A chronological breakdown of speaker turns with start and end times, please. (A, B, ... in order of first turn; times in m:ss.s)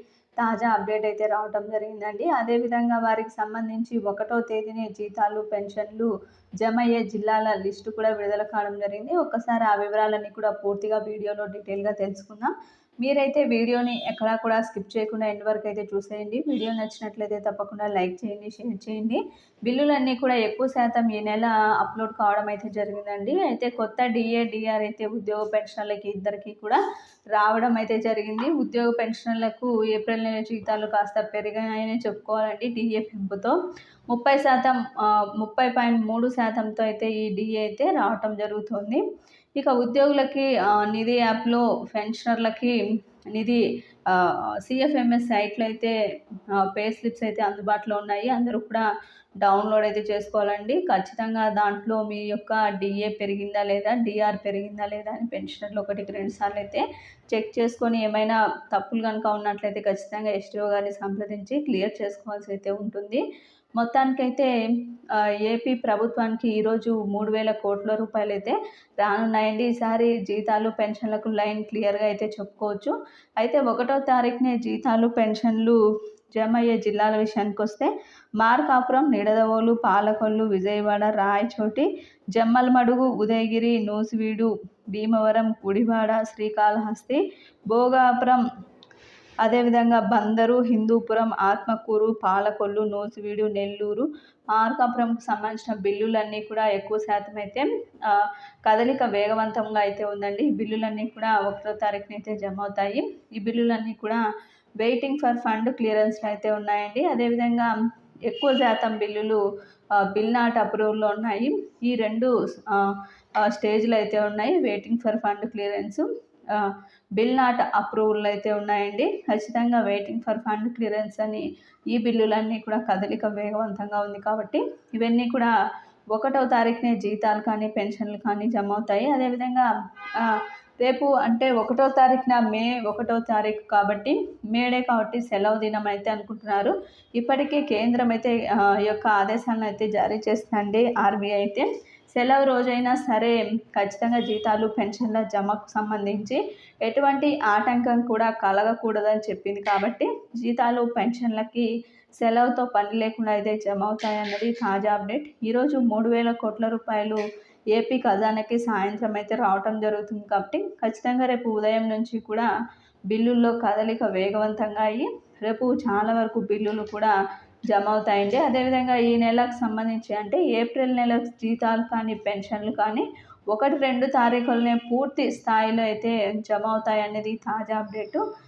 0:00.4-0:06.1 A
0:06.6-0:26.8 A
0:27.3-0:33.6 A
0:34.1-0:39.0 A
0:39.6-0:42.8 A
0:43.3-0:45.9 A
0:46.5-0:48.8 A
0:49.4-1:03.2 A
1:03.8-1:04.5 A
1:05.2-1:15.8 A
1:16.3-1:28.4 A
1:29.4-1:44.2 A
1:44.8-1:47.7 A
1:48.2-1:49.4 A
1:50.0-2:05.5 A
2:06.1-2:37.2 A
2:37.7-2:42.5 A
2:43.1-2:47.1 A
2:47.7-2:58.2 A